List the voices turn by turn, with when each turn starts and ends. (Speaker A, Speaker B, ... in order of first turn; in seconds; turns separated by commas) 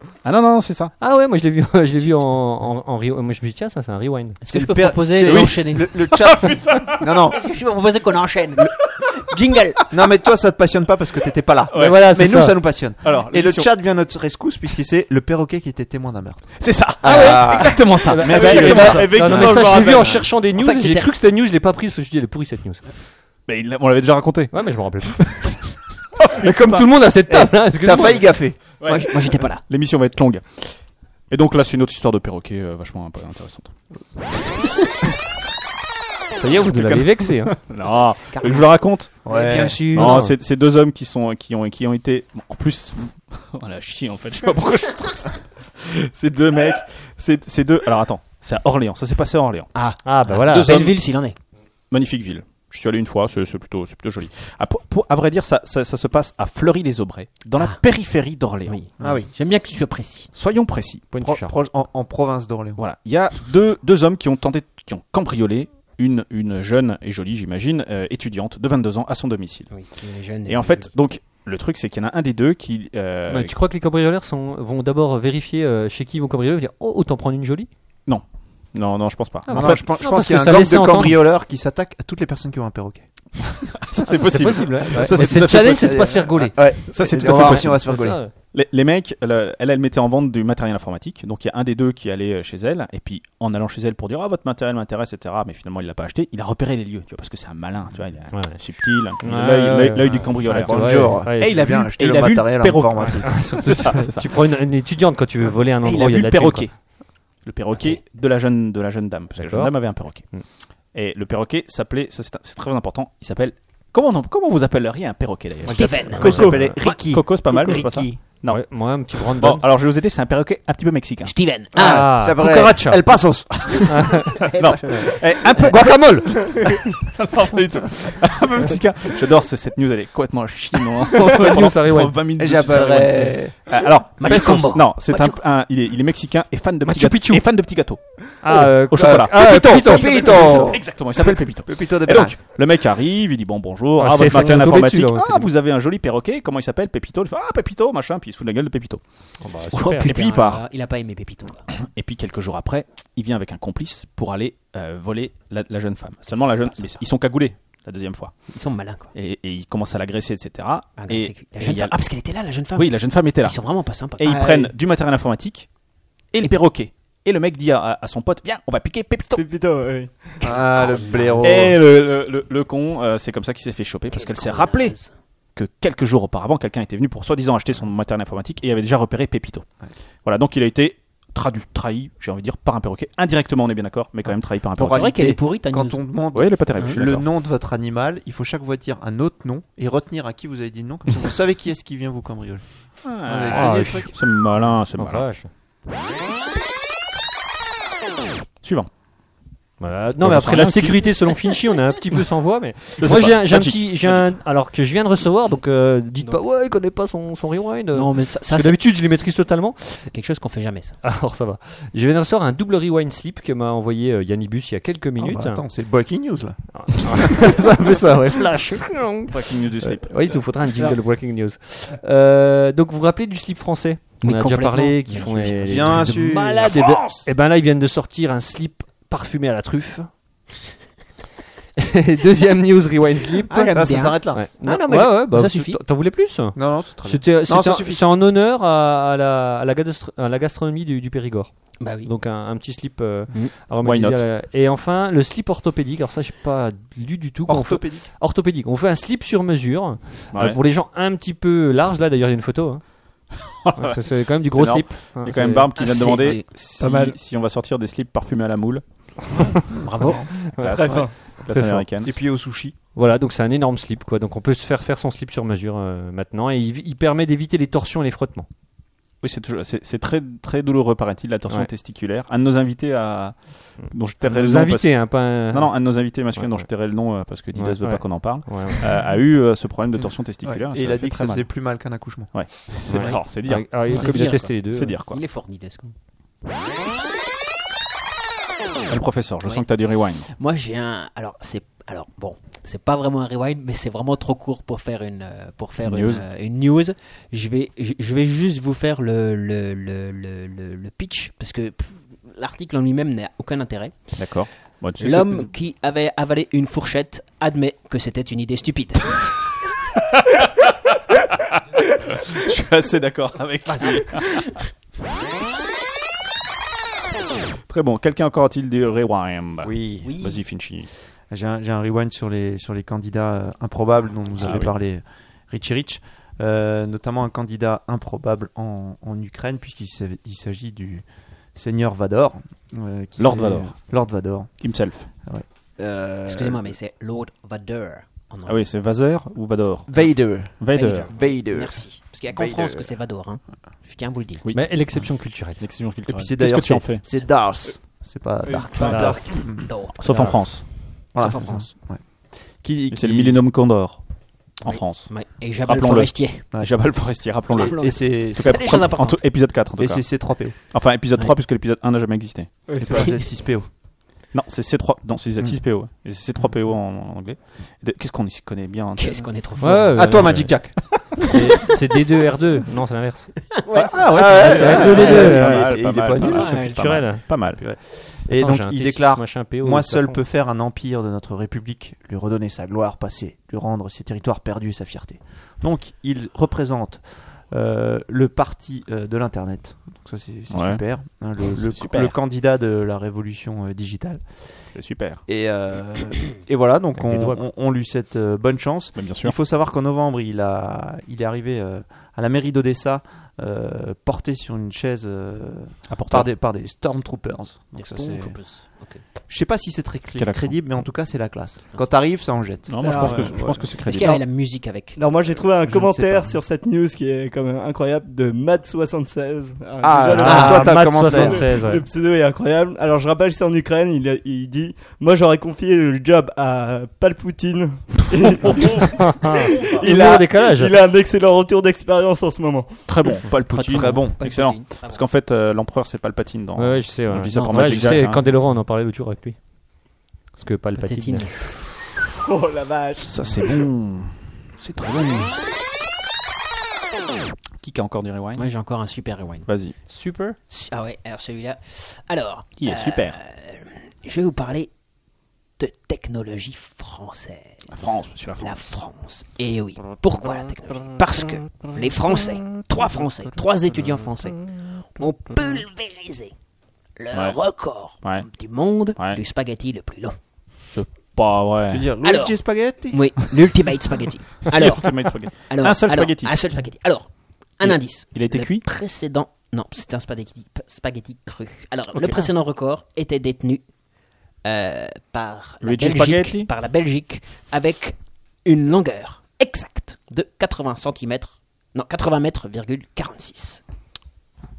Speaker A: 0.2-0.9, Speaker B: 1.0-4.4, Speaker C: 4.4-6.1, Speaker D: 4.5-7.5, Speaker A: 5.2-7.0, Speaker C: 7.2-9.9, Speaker D: 9.9-20.2, Speaker A: 11.7-12.2, Speaker B: 11.7-12.6, Speaker A: 13.0-13.7, Speaker A: 16.6-20.2, Speaker B: 17.0-23.0, Speaker C: 18.4-21.1, Speaker A: 23.4-25.6, Speaker B: 24.5-25.5, Speaker A: 26.2-26.9, Speaker B: 26.4-28.4, Speaker D: 27.3-28.7, Speaker A: 28.8-33.8, Speaker C: 28.8-29.6, Speaker B: 36.4-37.5, Speaker A: 36.8-39.2, Speaker C: 38.3-40.2, Speaker D: 39.2-39.9, Speaker A: 39.9-49.7, Speaker B: 39.9-40.3, Speaker C: 49.7-51.4, Speaker B: 50.0-50.7, Speaker A: 50.4-51.0, Speaker A: 51.9-58.8, Speaker C: 57.6-57.8, Speaker C: 58.6-60.3, Speaker D: 59.0-59.3, Speaker A: 60.3-61.1, Speaker B: 61.1-61.5, Speaker D: 61.2-62.8, Speaker A: 62.8-69.7, Speaker C: 69.7-70.9, Speaker A: 70.5-73.5, Speaker B: 73.3-77.7, Speaker A: 78.0-79.9, Speaker B: 79.5-81.2, Speaker D: 79.5-83.7, Speaker A: 83.8-104.3, Speaker B: 84.1-88.3, Speaker D: 84.9-88.2, Speaker B: 98.3-101.7, Speaker D: 100.3-103.9, Speaker B: 103.1-106.7, Speaker A: 105.8-121.3, Speaker B: 109.3-110.4, Speaker C: 115.7-117.0, Speaker D: 115.7-118.2, Speaker B: 116.2-116.6, Speaker B: 118.5-119.7, Speaker C: 121.2-122.1, Speaker D: 121.7-124.1, Speaker B: 121.8-124.3, Speaker A: 123.5-123.9, Speaker C: 124.4-125.8, Speaker A: 124.6-150.6, Speaker B: 125.6-126.7, Speaker B: 131.2-132.2, Speaker D: 132.3-134.6, Speaker C: 134.2-135.4, Speaker B: 136.8-137.7, Speaker B: 138.4-140.7, Speaker D: 138.9-142.4, Speaker B: 144.0-145.5, Speaker B: 149.4-150.1, Speaker C: 149.7-151.7, Speaker A: 151.8-158.5, Speaker C: 156.3-156.9, Speaker C: 158.5-159.1, Speaker A: 159.1-162.0, Speaker C: 161.0-164.7, Speaker A: 162.7-163.6, Speaker A: 164.2-165.7, Speaker A: 166.3-169.4, Speaker E: 169.3-170.4, Speaker D: 170.4-171.8, Speaker C: 170.4-171.7, Speaker A: 171.4-175.0, Speaker C: 174.1-175.1, Speaker A: 175.5-179.7, Speaker A: 180.2-185.1, Speaker D: 184.8-194.1, Speaker C: 184.8-186.2, Speaker A: 186.3-187.2, Speaker C: 186.7-187.0, Speaker A: 193.0-195.3, Speaker B: 193.5-194.4, Speaker B: 194.9-195.5, Speaker A: 198.6-198.9, Speaker B: 199.8-210.1, Speaker A: 200.2-201.2, Speaker A: 203.0-204.3, Speaker C: 207.9-209.2, Speaker C: 210.0-211.0, Speaker B: 211.0-215.6, Speaker D: 215.2-217.6, Speaker B: 216.7-230.1, Speaker A: 219.3-220.3, Speaker C: 224.2-226.1, Speaker A: 225.1-225.8, Speaker D: 225.6-226.7, Speaker A: 226.6-227.2, Speaker B: 231.8-255.7, Speaker C: 233.5-235.8, Speaker D: 233.5-234.4, Speaker D: 236.5-238.0, Speaker C: 241.8-242.1, Speaker A: 243.8-244.2, Speaker D: 247.4-248.1, Speaker A: 250.3-250.6, Speaker A: 253.6-259.3, Speaker C: 255.7-256.5, Speaker E: 256.8-257.1, Speaker D: 259.6-262.7, Speaker C: 259.9-260.2, Speaker A: 260.6-262.1, Speaker E: 260.6-261.2, Speaker B: 262.9-268.5, Speaker A: 269.2-281.5, Speaker B: 274.2-276.7, Speaker B: 277.5-278.9, Speaker D: 280.4-283.2, Speaker A: 282.3-285.2, Speaker B: 282.9-285.0, Speaker C: 283.8-285.9, Speaker A: 288.9-290.3, Speaker C: 290.3-309.4, Speaker A: 295.8-296.2, Speaker A: 304.1-305.5, Speaker A: 310.1-310.7, Speaker A: 312.1-314.6, Speaker C: 313.8-314.6, Speaker A: 317.7-320.9, Speaker D: 319.6-320.1, Speaker C: 320.0-320.4, Speaker D: 321.3-336.7, Speaker A: 324.4-324.7, Speaker A: 333.2-333.8, Speaker A: 334.6-335.1, Speaker C: 336.2-338.7, Speaker A: 338.4-341.1, Speaker D: 339.9-342.9, Speaker C: 340.7-344.4, Speaker A: 344.4-347.0, Speaker B: 344.5-345.6, Speaker D: 346.1-353.4, Speaker E: 348.4-349.4, Speaker B: 348.8-349.4, Speaker C: 349.4-351.7, Speaker A: 350.0-350.7, Speaker A: 352.9-363.1, Speaker C: 354.6-356.4, Speaker D: 356.5-360.6, Speaker C: 357.5-359.2, Speaker E: 362.7-363.1, Speaker D: 362.8-363.7, Speaker A: 364.3-369.4, Speaker C: 368.9-370.4, Speaker B: 369.6-373.5, Speaker D: 369.9-371.2, Speaker C: 373.6-375.6, Speaker A: 373.7-377.6, Speaker D: 374.0-394.7, Speaker B: 374.2-375.6, Speaker C: 376.1-377.1, Speaker B: 376.6-377.8, Speaker B: 378.3-380.2, Speaker A: 390.5-390.8, Speaker A: 391.4-392.1, Speaker A: 394.7-395.2, Speaker D: 395.2-408.4, Speaker B: 396.9-397.4, Speaker A: 398.9-399.3, Speaker A: 405.9-406.3, Speaker C: 407.8-409.0, Speaker D: 409.3-413.7, Speaker A: 410.2-410.6, Speaker A: 412.7-414.2, Speaker E: 412.8-413.3, Speaker C: 413.8-415.2, Speaker E: 414.9-432.8, Speaker D: 415.7-416.3, Speaker D: 419.8-421.5, Speaker B: 420.2-421.8, Speaker C: 420.2-420.8, Speaker B: 429.0-430.7, Speaker A: 432.9-438.3, Speaker C: 433.5-435.0, Speaker D: 433.5-434.2, Speaker B: 436.6-439.4, Speaker C: 437.2-438.0, Speaker B: 440.3-441.3, Speaker C: 440.7-441.4, Speaker E: 442.2-443.4, Speaker A: 443.0-445.4, Speaker A: 447.6-448.4, Speaker C: 448.4-449.5, Speaker A: 449.4-449.7, Speaker B: 449.9-450.4, Speaker C: 450.5-454.7, Speaker A: 452.6-453.2, Speaker C: 455.6-466.3, Speaker A: 457.7-458.5, Speaker C: 467.0-470.2, Speaker A: 467.1-467.4, Speaker A: 468.0-468.3, Speaker A: 468.9-469.2, Speaker A: 470.7-471.9, Speaker D: 471.7-473.2, Speaker C: 472.0-483.6, Speaker A: 474.5-476.4, Speaker A: 477.6-478.6, Speaker A: 481.9-482.3, Speaker C: 484.4-493.6, Speaker A: 485.6-486.5